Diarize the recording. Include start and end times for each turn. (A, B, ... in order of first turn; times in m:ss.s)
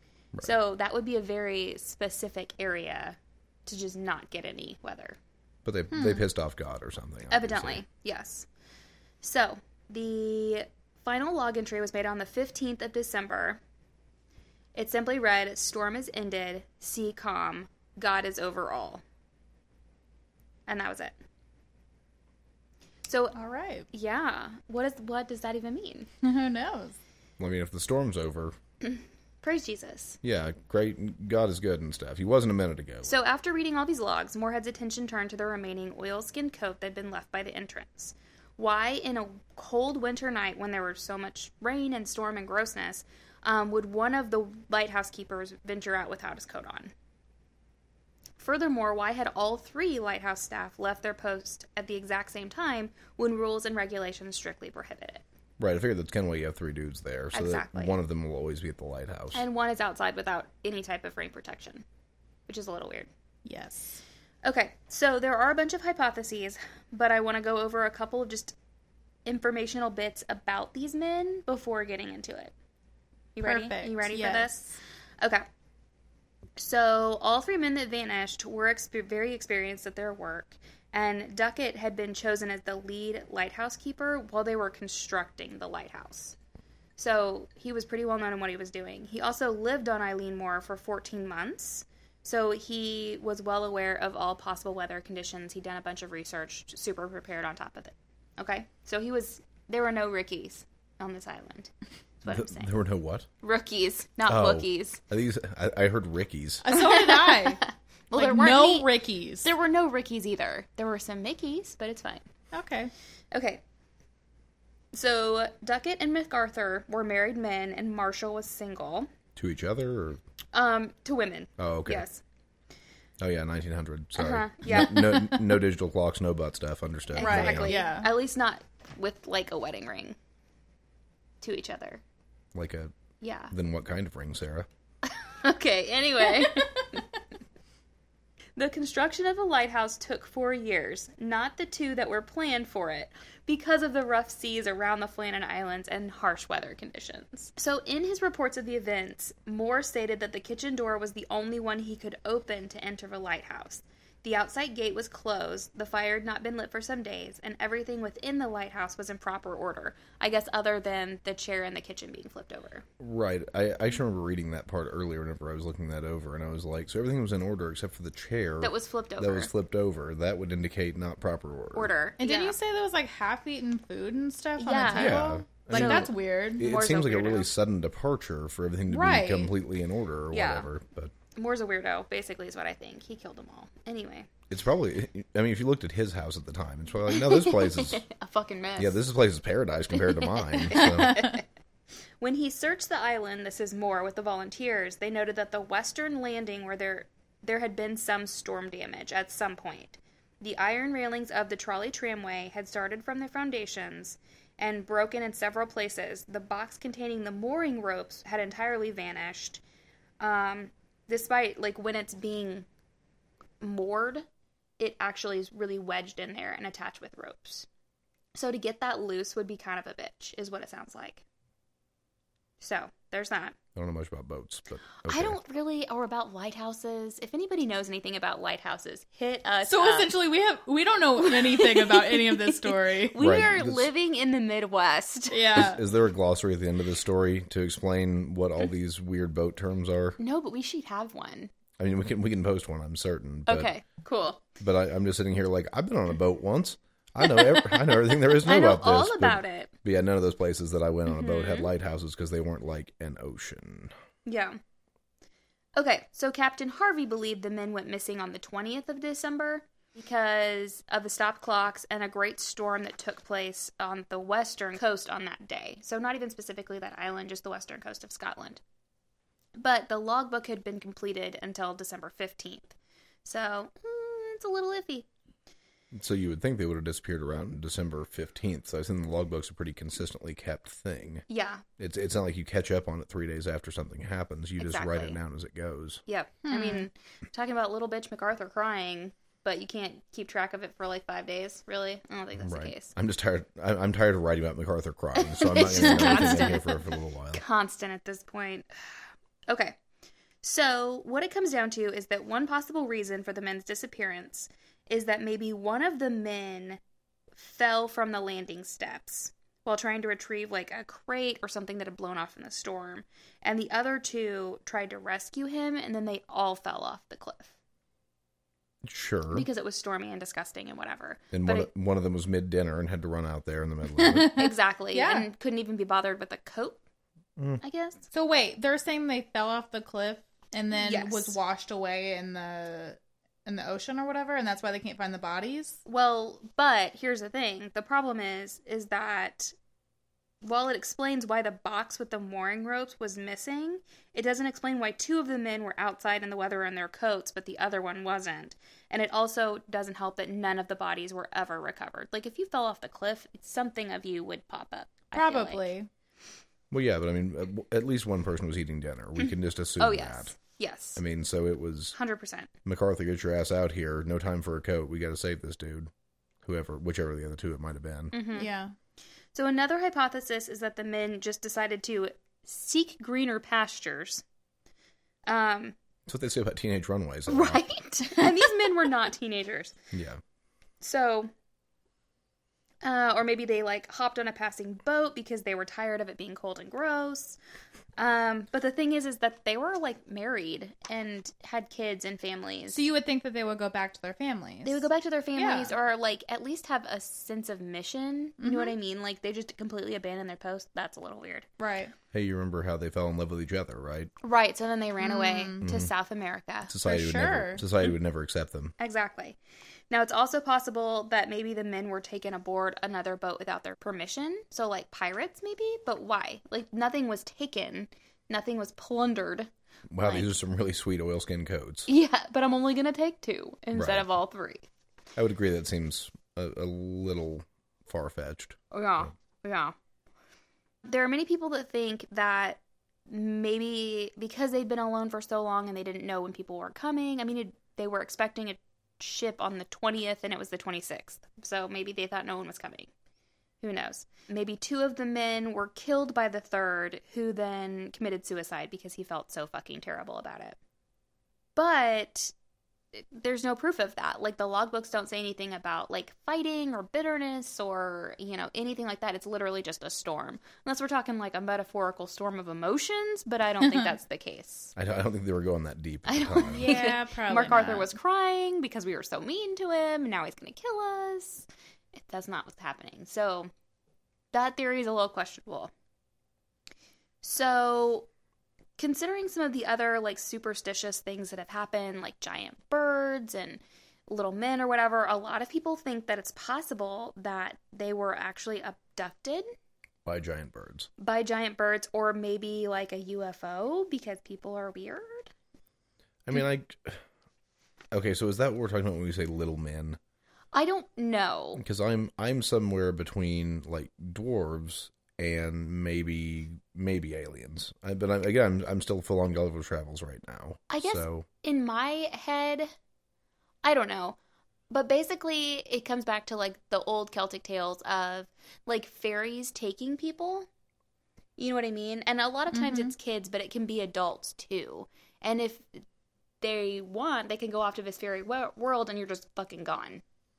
0:00.4-0:05.2 A
0:05.6-0:07.8 B
0:05.9-0:06.2 C
0:07.3-0:08.5 A
0:09.2-0:13.6 A
0:14.8-0:19.0 A
0:20.7-0:21.1 A
0:23.1-0:23.4 A
0:23.4-0:23.9 C
0:23.9-0:26.1 A
0:26.2-0:27.0 C
0:27.4-0:28.6 B
0:28.8-0:30.2 A
0:30.2-0:33.1 B
0:33.0-0:46.9 A
0:48.4-0:55.2 A
0:55.6-0:59.4 B
0:57.3-0:58.0 A
0:59.3-1:01.8 A
1:02.5-1:03.1 A
1:03.4-1:04.0 C
1:04.4-1:08.6 A
1:09.3-1:12.5 A
1:13.4-1:15.4 A
1:13.4-1:14.5 C
1:16.6-1:26.4 A
1:27.0-1:42.7 A
1:42.3-1:43.3 B
1:43.4-1:45.0 A
1:44.3-1:46.7 B
1:46.6-1:47.6 C
1:46.8-1:48.9 A
1:48.2-1:49.5 C
1:49.4-1:52.3 A
1:52.5-1:52.9 C
1:53.3-1:53.6 A
1:54.9-1:59.1 A
1:59.4-2:00.2 B
2:00.5-2:02.2 A
2:01.6-2:02.0 B
2:03.2-2:07.8 B
2:04.2-2:05.3 A
2:07.1-2:10.2 A
2:07.2-2:08.1 C
2:11.4-2:12.0 A
2:12.5-2:12.9 B
2:13.2-2:13.5 A
2:13.5-2:14.7 B
2:15.1-2:17.0 A
2:18.6-2:42.8 A
2:43.0-2:51.9 B
2:48.6-2:49.5 A
2:51.7-2:52.6 A
2:52.2-2:56.6 C
2:54.6-2:57.5 A
2:54.9-3:01.1 B
2:58.9-2:59.5 C
3:00.3-3:00.7 A
3:01.4-3:04.3 A
3:04.5-3:08.0 B
3:07.1-3:09.0 A
3:08.8-3:11.3 B
3:10.2-3:11.4 A
3:10.8-3:11.4 C
3:12.2-3:29.6 A
3:30.2-3:32.7 A
3:33.6-3:34.3 A
3:34.8-3:37.7 A
3:38.3-3:41.2 A
3:42.6-3:43.6 A
3:43.8-3:45.4 B
3:45.0-3:50.1 A
3:49.7-3:53.3 C
3:51.2-3:55.7 A
3:53.2-3:53.9 B
3:55.3-3:55.8 C
3:55.6-4:00.2 B
4:00.2-4:01.5 A
4:01.8-4:03.7 B
4:03.5-4:04.4 A
4:04.6-4:13.9 B
4:07.3-4:09.7 A
4:11.1-4:11.7 A
4:14.3-4:14.6 A
4:15.8-4:28.6 A
4:29.6-4:35.1 A
4:35.9-4:41.2 B
4:41.3-4:41.6 A
4:41.8-4:46.0 B
4:44.6-4:45.2 A
4:46.1-4:52.9 A
4:46.5-4:46.9 C
4:52.4-4:57.4 B
4:55.2-4:58.7 A
4:55.6-4:56.6 C
4:59.5-4:59.8 A
5:00.4-5:06.8 A
5:07.4-5:17.5 A
5:18.8-5:19.5 B
5:19.3-5:21.7 A
5:21.3-5:24.4 B
5:24.0-5:25.3 C
5:24.4-5:26.8 A
5:27.4-5:27.6 B
5:27.6-5:28.0 A
5:28.1-5:35.8 C
5:30.7-5:31.4 A
5:35.9-5:39.5 A
5:40.4-5:55.6 A
5:55.1-5:55.9 C
5:56.7-6:00.4 B
5:59.2-6:01.0 A
6:01.0-6:02.0 B
6:02.0-6:02.5 A
6:02.6-6:05.9 B
6:06.4-6:08.1 B
6:08.1-6:08.5 A
6:08.4-6:08.7 C
6:09.3-6:14.2 A
6:15.3-6:15.8 A
6:16.1-6:17.6 B
6:17.3-6:19.8 A
6:19.9-6:20.2 B
6:20.8-6:21.3 A
6:22.8-6:27.4 A
6:28.0-6:32.8 A
6:32.7-6:35.7 C
6:34.6-6:41.5 A
6:38.4-6:38.8 C
6:41.6-6:41.9 C
6:42.1-6:44.1 B
6:44.2-6:46.7 A
6:45.0-6:45.6 C
6:45.6-6:45.9 B
6:46.7-6:48.8 B
6:46.8-6:47.6 C
6:48.8-6:49.4 A
6:49.9-6:59.5 A
6:59.9-7:01.9 B
7:00.0-7:00.3 A
7:01.9-7:04.7 A
7:03.7-7:04.1 B
7:05.2-7:09.1 B
7:08.7-7:09.7 A
7:10.8-7:22.9 A
7:23.6-7:30.6 A
7:31.6-7:32.3 A
7:32.9-7:44.8 A
7:44.8-7:46.7 B
7:46.1-7:53.5 A
7:46.5-7:47.9 C
7:54.3-7:55.7 A
7:57.2-7:58.1 A
7:58.8-8:09.5 A
8:10.1-8:10.9 B
8:11.0-8:15.3 A
8:16.2-8:17.0 B
8:17.9-8:20.0 B
8:20.5-8:21.6 A
8:21.6-8:31.3 B
8:30.7-8:32.7 A
8:33.6-8:34.2 A
8:34.7-8:40.5 A
8:41.4-8:45.7 A
8:42.5-8:42.9 C
8:46.4-8:50.0 A